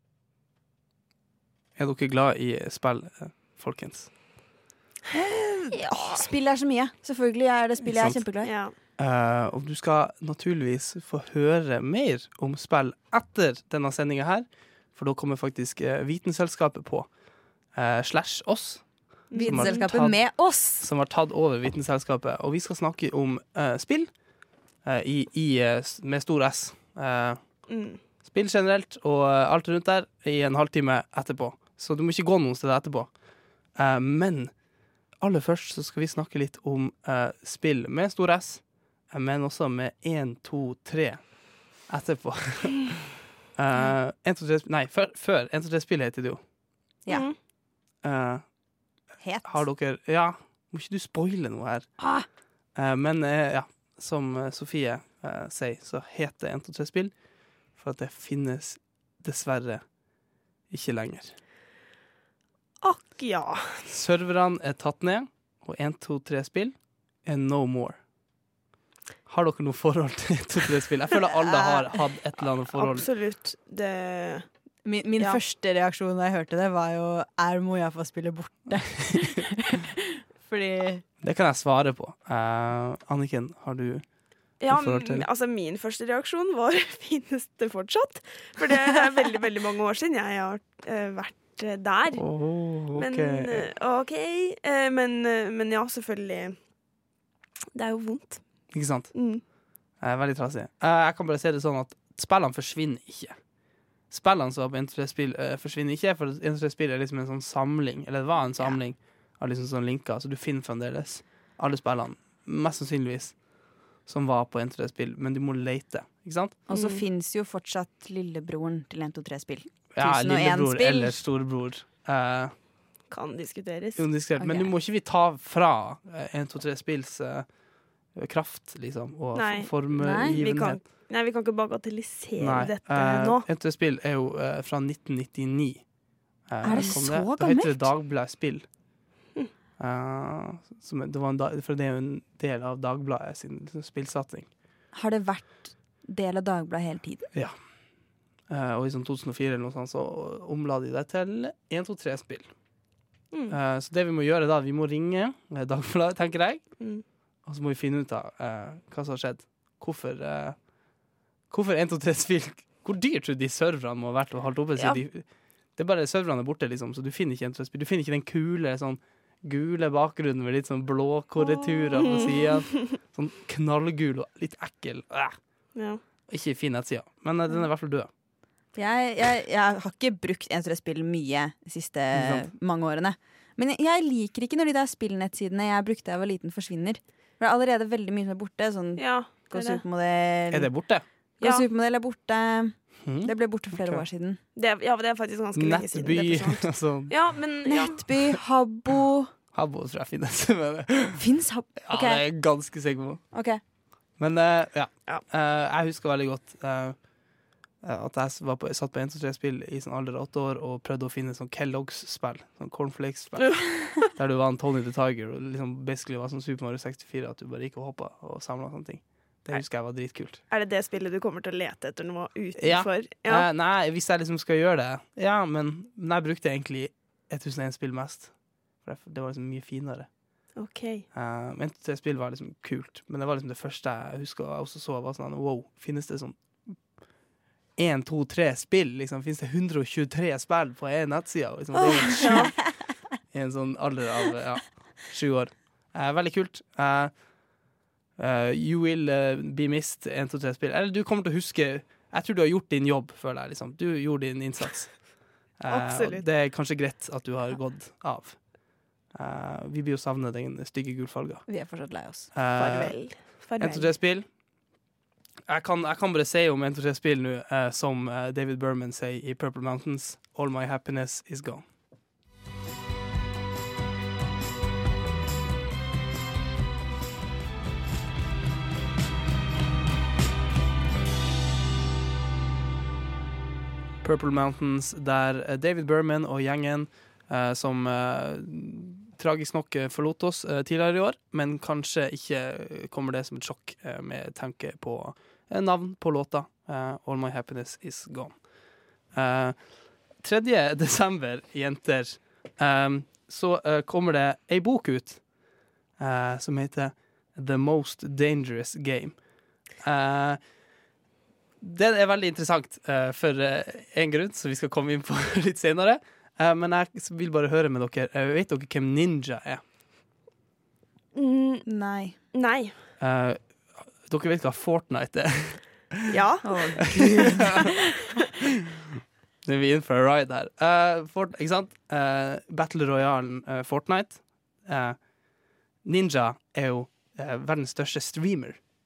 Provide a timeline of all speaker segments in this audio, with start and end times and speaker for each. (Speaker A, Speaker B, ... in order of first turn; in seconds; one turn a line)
Speaker A: 1.8-4.1
Speaker B: 5.1-8.5
Speaker A: 7.8-8.2
Speaker C: 8.4-8.7
Speaker A: 9.0-17.1
Speaker A: 17.7-24.1
Speaker C: 19.3-19.8
Speaker B: 19.4-20.9
Speaker A: 24.8-27.4
Speaker C: 27.7-28.0
Speaker A: 28.2-33.1
Speaker A: 33.8-34.5
Speaker A: 35.2-41.2
Speaker A: 41.9-43.0
Speaker A: 43.6-46.4
Speaker C: 47.1-47.4
Speaker A: 48.0-48.4
Speaker B: 49.2-49.6
Speaker A: 49.5-51.9
Speaker B: 52.0-52.3
Speaker A: 52.8-57.1
Speaker A: 57.8-59.8
Speaker A: 60.7-61.4
Speaker C: 62.8-63.9
Speaker A: 63.9-68.0
Speaker A: 69.3-73.1
Speaker B: 71.5-71.8
Speaker C: 72.8-74.5
Speaker B: 74.8-81.0
Speaker A: 81.2-84.0
Speaker C: 84.6-92.2
Speaker A: 84.7-85.3
Speaker A: 92.1-93.7
Speaker C: 93.0-96.6
Speaker C: 97.8-98.4
Speaker A: 98.7-99.1
Speaker C: 99.1-99.4
Speaker A: 100.0-103.4
Speaker A: 104.1-113.4
Speaker A: 114.1-116.6
Speaker B: 116.7-121.2
Speaker C: 116.7-117.0
Speaker A: 119.9-122.5
Speaker C: 123.1-124.1
Speaker A: 124.0-127.5
Speaker B: 124.4-124.7
Speaker A: 128.2-130.8
Speaker C: 129.3-133.4
Speaker B: 130.0-130.4
Speaker A: 132.4-135.8
Speaker A: 136.5-138.7
Speaker B: 136.6-137.9
Speaker A: 139.8-144.5
Speaker B: 144.9-147.3
Speaker A: 148.5-152.5
Speaker C: 153.3-153.6
Speaker A: 153.5-156.7
Speaker A: 157.5-160.6
Speaker A: 161.5-165.2
Speaker A: 165.8-175.4
Speaker C: 171.9-173.0
Speaker C: 175.8-176.0
Speaker A: 176.3-178.1
Speaker B: 178.8-190.7
Speaker A: 182.1-182.5
Speaker C: 189.0-189.8
Speaker A: 190.5-191.1
Speaker C: 191.4-191.7
Speaker B: 191.4-194.4
Speaker A: 193.0-194.1
Speaker C: 194.6-198.0
Speaker A: 195.6-197.2
Speaker B: 197.7-199.3
Speaker A: 199.5-201.2
Speaker B: 201.2-202.2
Speaker A: 201.8-203.2
Speaker B: 203.3-203.6
Speaker A: 204.2-207.0
Speaker A: 207.8-220.4
Speaker C: 213.4-213.9
Speaker C: 220.5-223.5
Speaker A: 222.6-230.1
Speaker C: 230.6-231.1
Speaker A: 231.1-236.4
Speaker A: 237.8-242.7
Speaker C: 242.1-242.5
Speaker A: 243.3-247.1
Speaker A: 248.2-258.4
Speaker C: 255.7-256.3
Speaker A: 259.1-261.5
Speaker B: 261.5-262.3
Speaker A: 262.3-263.1
Speaker C: 262.6-263.9
Speaker A: 263.6-264.3
Speaker A: 265.5-271.6
Speaker A: 284.0-298.4
Speaker A: 299.1-299.6
Speaker A: 300.2-305.2
Speaker A: 306.0-309.2
Speaker A: 309.8-310.4
Speaker A: 311.6-319.6
Speaker C: 321.1-321.7
Speaker B: 321.7-322.2
Speaker C: 322.3-322.7
Speaker A: 323.0-326.1
Speaker C: 326.1-326.8
Speaker B: 326.4-327.7
Speaker A: 327.1-327.7
Speaker A: 329.0-335.0
Speaker A: 335.8-338.6